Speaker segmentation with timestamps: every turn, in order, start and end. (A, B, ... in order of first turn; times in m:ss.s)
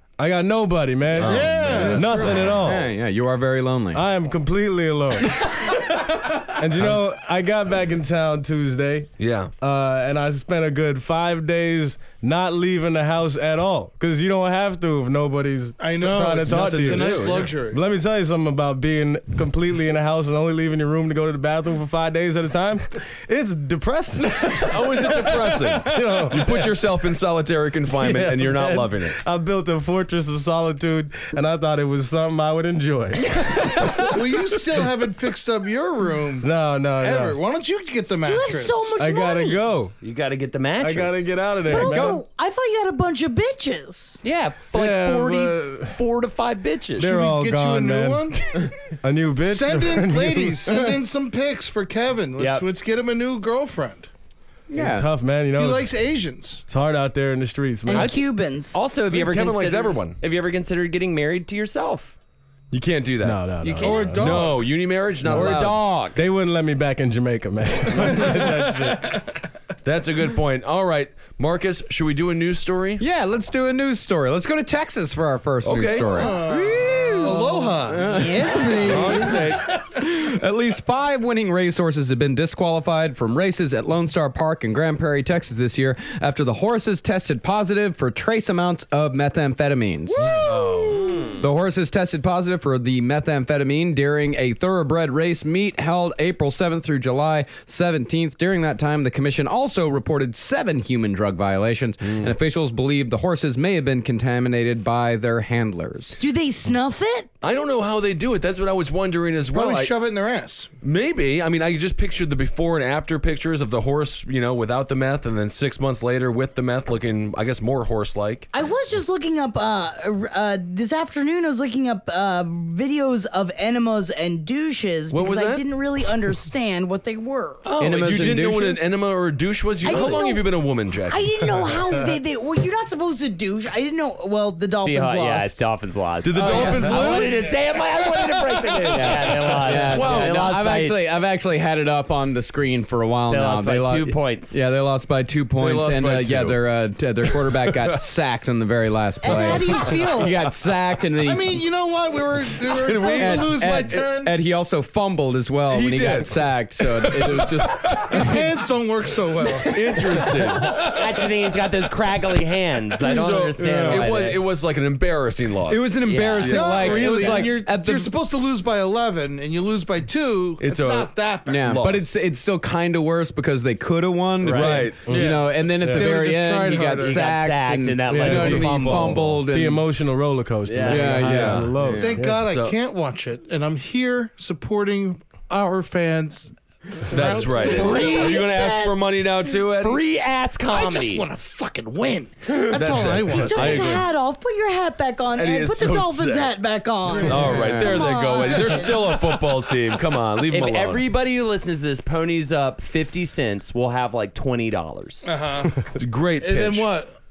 0:00.2-0:02.8 A
0:01.1-0:02.6 B
0:01.2-0:02.5 C
0:01.7-0:04.0 D
0:03.9-0:05.5 A
0:06.6-0:26.6 A
0:09.2-0:09.5 B
0:15.8-0:17.8 C
0:16.4-0:17.6 B
0:24.4-0:29.2 B
0:28.0-0:34.2 A
0:34.0-0:38.9 C
0:36.4-0:37.4 A
0:38.2-0:39.6 E
0:39.0-0:39.9 A
0:40.0-0:41.9 F
0:40.8-0:42.2 A
0:41.6-0:44.2 E
0:44.2-0:47.1 F
0:44.7-0:46.0 A
0:47.0-0:50.9 A
0:47.0-0:48.6 C
0:49.4-0:54.1 C
0:52.4-0:52.6 F
0:54.7-0:55.1 D
0:54.7-0:56.0 A
0:55.5-0:56.6 C
0:56.7-0:58.2 A
0:57.8-0:58.8 E
0:57.9-1:02.1 F
0:59.1-1:00.2 B
1:02.7-1:05.9 B
1:03.2-1:04.4 A
1:03.6-1:04.0 F
1:03.8-1:04.7 C
1:05.2-1:06.2 F
1:05.3-1:09.2 A
1:09.8-1:13.0 B
1:13.0-1:30.4 D
1:15.6-1:16.3 B
1:16.0-1:18.1 C
1:18.1-1:19.4 E
1:18.8-1:19.7 B
1:30.1-1:31.2 E
1:30.3-1:31.3 B
1:30.8-1:31.4 F
1:31.4-1:46.2 D
1:42.0-1:42.3 B
1:46.2-1:47.3 E
1:47.4-1:49.9 B
1:49.5-1:50.7 C
1:50.8-1:58.5 B
1:58.5-2:07.6 E
2:05.1-2:05.6 B
2:07.6-2:08.8 F
2:07.8-2:08.8 D
2:08.0-2:11.7 B
2:09.8-2:15.6 E
2:09.9-2:10.2 F
2:14.7-2:21.0 F
2:16.2-2:17.6 B
2:16.4-2:17.0 D
2:16.5-2:17.0 E
2:18.8-2:31.6 D
2:19.8-2:20.5 B
2:23.3-2:24.6 F
2:25.6-2:26.6 B
2:27.3-2:28.0 B
2:29.2-2:30.4 E
2:31.2-2:34.3 C
2:32.7-2:33.6 B
2:33.1-2:38.4 D
2:35.7-2:38.2 B
2:38.1-2:39.8 C
2:39.6-2:40.9 B
2:40.7-2:44.4 F
2:43.0-2:47.0 B
2:43.6-2:44.0 D
2:45.7-2:48.1 D
2:46.0-2:47.5 F
2:46.4-2:51.8 C
2:50.6-2:52.1 B
2:51.5-2:59.8 D
2:54.4-2:55.3 B
2:55.0-2:56.1 A
2:55.1-2:57.3 C
2:56.7-2:59.4 F
2:58.1-3:02.4 A
2:58.4-2:59.2 B
3:00.6-3:01.2 F
3:00.8-3:02.2 D
3:01.2-3:01.8 B
3:02.0-3:06.5 C
3:02.4-3:02.7 B
3:07.1-3:08.2 C
3:07.1-3:10.0 B
3:07.4-3:09.0 E
3:07.6-3:08.4 F
3:09.8-3:11.2 F
3:10.7-3:14.0 C
3:12.7-3:14.1 B
3:13.3-3:19.2 E
3:15.3-3:16.5 B
3:17.2-3:21.0 B
3:20.5-3:25.3 F
3:25.2-3:25.8 C
3:25.9-3:26.9 B
3:26.4-3:27.1 C